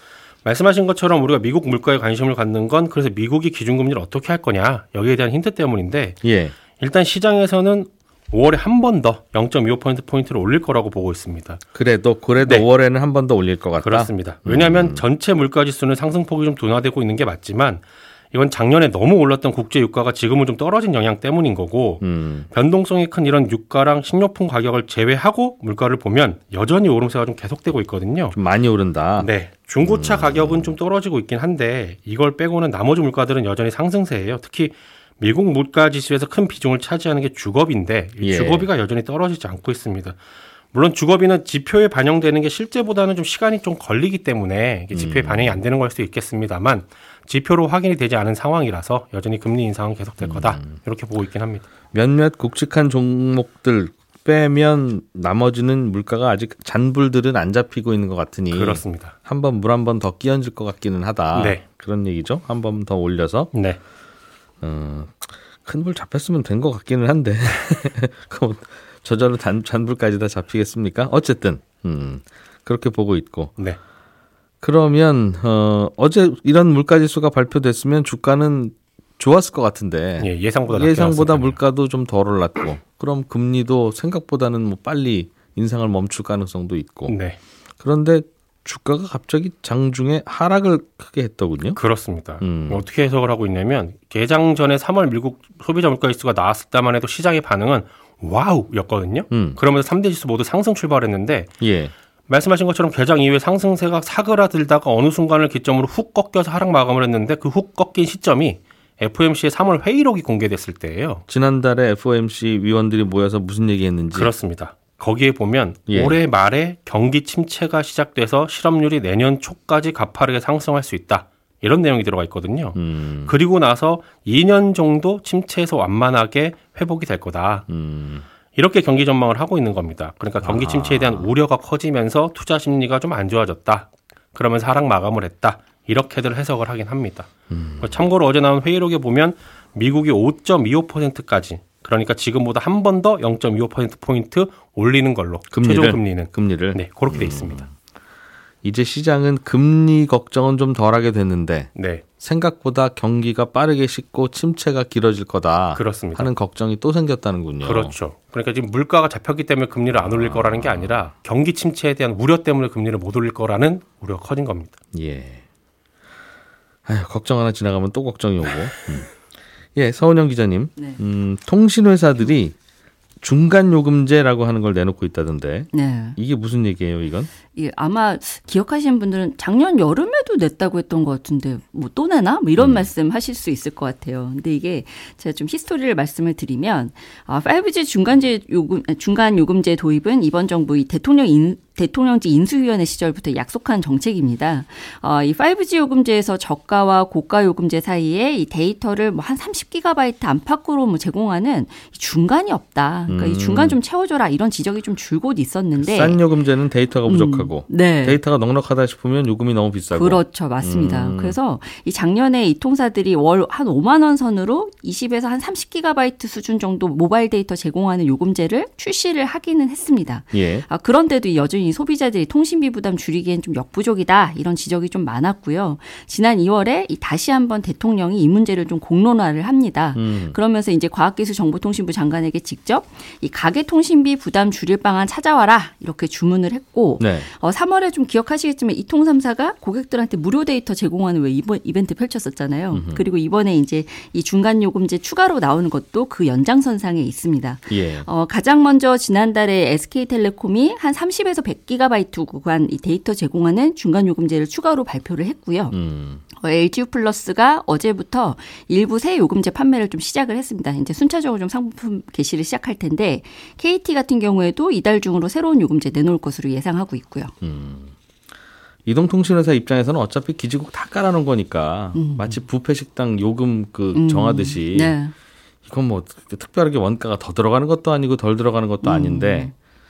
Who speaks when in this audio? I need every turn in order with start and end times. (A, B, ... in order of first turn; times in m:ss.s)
0:00.4-0:06.2 A
0:06.2-0:06.5 B
0:06.8-0:11.6 A
0:11.7-0:15.0 B
0:13.8-0:28.4 A
0:22.0-0:22.5 B
0:28.3-0:29.3 B
0:29.2-0:40.2 A
0:29.8-0:30.7 B
0:38.2-0:38.7 B
0:40.7-0:51.6 A
0:44.9-0:45.6 B
0:50.2-0:50.8 B
0:51.9-1:03.5 B
0:58.5-0:59.1 A
1:01.3-1:01.6 A
1:03.5-1:03.8 A
1:04.6-1:13.5 B
1:14.6-1:27.2 B
1:20.2-1:21.6 A
1:27.1-1:27.4 A
1:27.8-1:31.8 B
1:31.7-1:41.5 A
1:32.4-1:32.8 B
1:39.3-1:39.6 B
1:41.6-1:41.9 B
1:42.3-1:51.2 A
1:51.3-1:54.3 B
1:54.1-2:07.7 A
1:55.9-1:56.2 B
2:02.7-2:03.3 B
2:07.7-2:08.2 B
2:08.5-2:27.7 A
2:10.4-2:11.3 B
2:17.5-2:18.0 B
2:25.5-2:27.6 B
2:28.6-2:37.9 B
2:31.7-2:32.0 A
2:35.7-2:36.3 A
2:37.6-2:44.8 A
2:39.9-2:41.1 B
2:44.9-2:45.4 B
2:46.8-2:49.2 B
2:49.7-2:52.5 B
2:53.2-2:57.3 B
2:55.7-2:56.2 C
2:57.5-3:26.2 C
3:02.6-3:02.9 B
3:23.1-3:23.8 B
3:25.8-3:31.4 B
3:27.0-3:28.2 C
3:29.9-4:15.8 C
3:40.3-3:40.6 B
3:49.9-3:50.4 B
3:57.0-3:57.3 B
4:02.7-4:03.0 B
4:07.7-4:08.1 B
4:15.7-4:16.2 B
4:16.4-4:27.3 C
4:27.4-4:27.9 B
4:28.8-4:35.0 B
4:31.9-4:32.4 C
4:33.9-4:35.1 C
4:35.6-4:39.5 B
4:38.8-4:39.5 C